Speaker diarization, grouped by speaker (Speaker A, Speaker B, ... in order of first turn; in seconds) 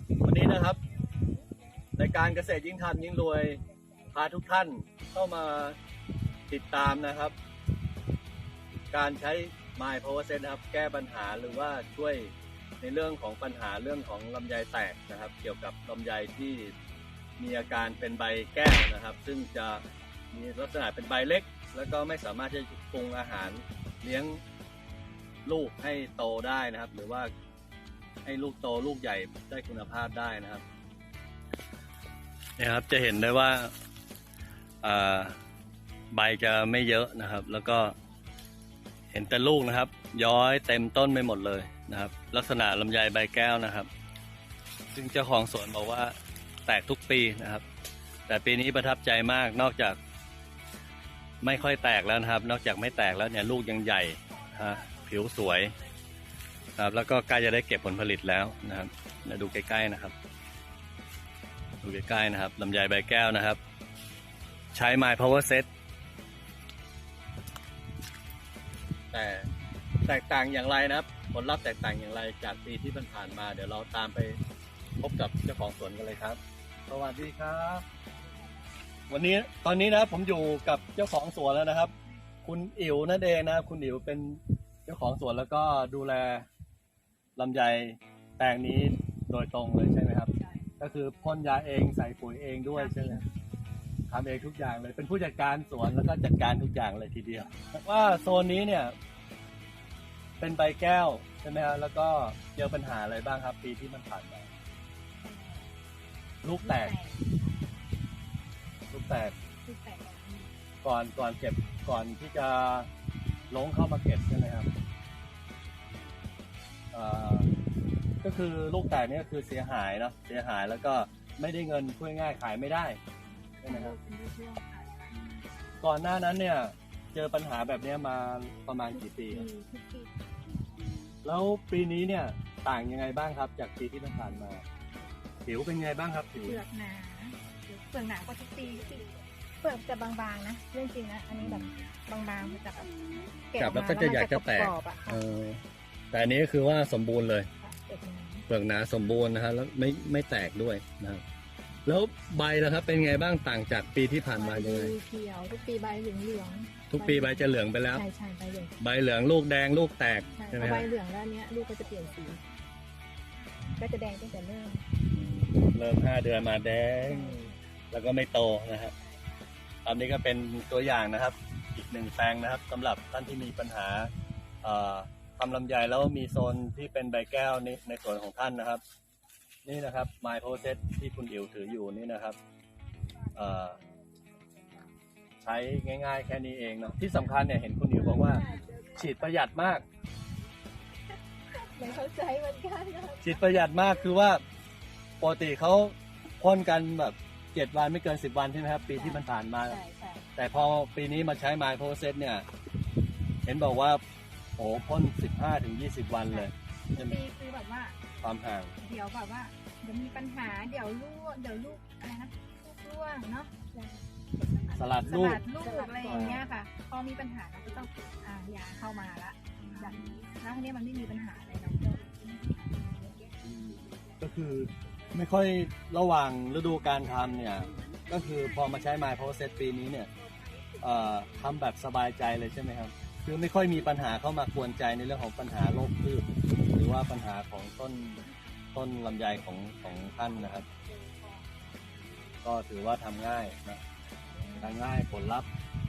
Speaker A: 0.2-0.8, 2.0-3.6, 4.1-5.8, 6.5-7.3, 8.9-16.7, 17.4-24.4, 25.5-27.3, 28.2-30.6, 32.6-33.7, 34.8-35.4, 36.1-38.0, 39.1-43.9, 44.9-46.1, 46.7-47.6, 48.3-50.0, 51.4-55.7, 56.8-60.1, 61.8-63.6, 64.7-65.7, 69.1-69.5, 70.0-74.4, 75.0-77.8, 79.1-81.9, 82.5-86.5, 87.4-93.2, 94.1-99.0, 100.4-104.5, 106.4-107.0, 108.9-109.3, 110.8-112.9, 113.5-114.7, 116.9-117.5, 118.2-123.0, 123.6-124.0, 125.8-129.5, 131.2-134.6, 135.4-136.6, 141.4-141.8, 143.6-147.5, 148.5-151.2, 151.9-154.9, 156.9-158.0, 158.8-160.9, 165.1-168.9, 169.8-174.1, 174.6-178.8, 179.7-182.4, 183.3-183.8, 185.4-188.4, 188.9-189.8, 193.2-194.4, 195.2-199.8, 200.4-202.5, 203.4-204.0, 204.6-207.2, 208.2-208.8, 214.7-215.4, 216.1-216.4, 219.6-220.3, 223.4-230.1, 230.8-238.2, 238.8-240.7, 242.4-243.8, 244.6-245.5
Speaker B: 92.7-93.3, 105.2-105.7, 106.6-107.3, 109.7-110.5, 123.6-125.2, 128.9-130.1, 136.4-139.1, 139.6-145.2, 147.6-148.4, 154.3-158.8, 160.4-162.4, 163.8-164.8, 167.1-167.6, 188.2-188.9, 191.6-193.4, 199.0-200.2, 206.3-208.0, 208.8-223.2, 244.4-244.8